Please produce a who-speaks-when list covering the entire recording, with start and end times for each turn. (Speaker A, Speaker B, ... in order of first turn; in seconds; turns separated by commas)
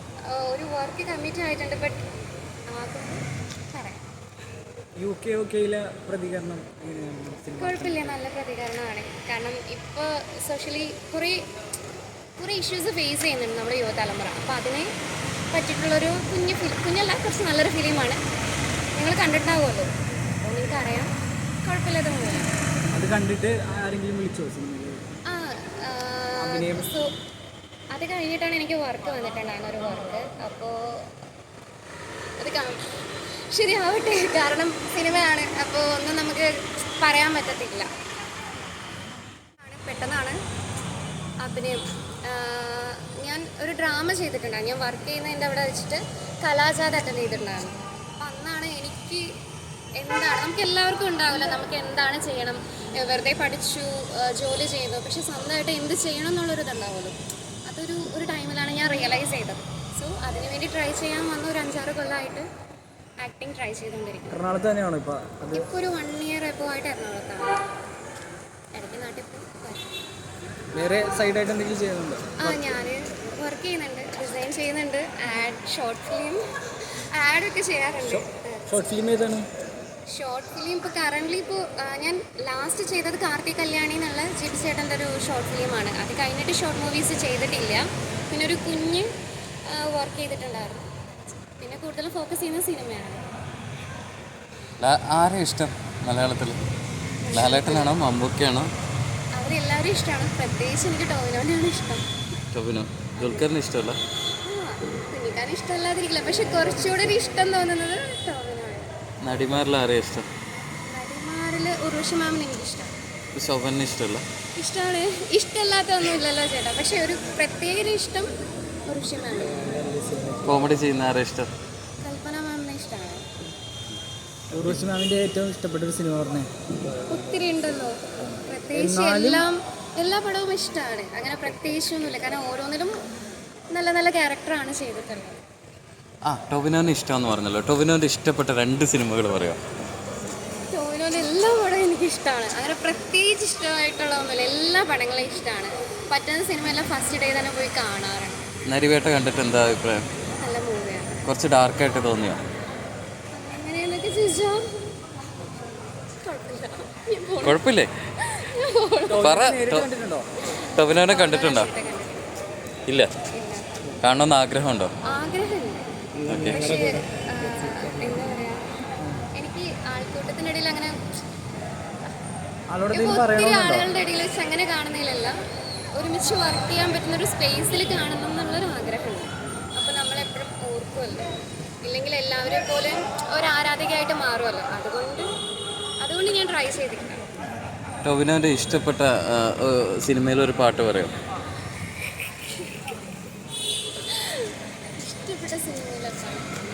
Speaker A: 0.3-2.0, Speaker A: 2.7-4.0, Speaker B: 5.0-8.2, Speaker A: 7.6-11.4, Speaker A: 12.4-14.9, Speaker A: 15.5-18.2, Speaker A: 19.0-21.1, Speaker A: 21.6-22.5, Speaker B: 22.9-25.1, Speaker A: 25.3-27.1, Speaker B: 26.4-26.9, Speaker A: 27.9-30.8, Speaker A: 32.4-32.9, Speaker A: 33.5-37.9, Speaker A: 39.6-40.4, Speaker A: 41.4-49.3, Speaker A: 50.0-62.5, Speaker A: 63.2-64.4, Speaker B: 64.3-65.7, Speaker A: 65.5-67.6, Speaker A: 68.7-69.9, Speaker B: 70.7-72.7, Speaker A: 72.4-76.4, Speaker A: 77.0-78.8, Speaker B: 78.1-79.5, Speaker A: 80.1-89.1, Speaker A: 89.7-90.9, Speaker A: 91.6-93.2, Speaker C: 94.8-96.6, Speaker A: 97.2-98.0, Speaker C: 97.3-98.7, Speaker A: 99.3-102.1, Speaker C: 102.5-104.0, Speaker A: 103.2-103.5, Speaker A: 104.4-108.9, Speaker C: 109.2-110.3, Speaker A: 110.9-112.9, Speaker C: 113.3-114.2, Speaker A: 114.6-118.3, Speaker A: 118.9-119.6, Speaker B: 119.6-120.7, Speaker C: 120.5-121.5, Speaker A: 122.0-123.3, Speaker B: 124.5-126.5, Speaker A: 127.1-133.0, Speaker B: 128.7-129.5, Speaker A: 133.7-135.4, Speaker C: 136.3-139.6, Speaker A: 140.7-148.5, Speaker C: 148.7-150.1, Speaker A: 150.4-151.3, Speaker C: 151.2-152.4, Speaker A: 153.3-154.6, Speaker A: 156.2-157.7, Speaker C: 157.4-157.9, Speaker A: 158.2-159.4, Speaker B: 159.1-160.3, Speaker C: 159.2-159.9, Speaker A: 160.5-162.3, Speaker C: 160.7-161.7, Speaker A: 163.3-163.7, Speaker C: 164.0-164.9, Speaker A: 165.0-165.9, Speaker C: 166.3-166.6, Speaker B: 166.3-166.9, Speaker A: 166.4-168.6, Speaker A: 169.4-171.0, Speaker B: 172.7-173.9, Speaker A: 172.9-175.3, Speaker A: 175.9-181.3, Speaker A: 181.8-185.3, Speaker A: 186.0-187.2, Speaker C: 188.0-191.2, Speaker A: 194.1-196.5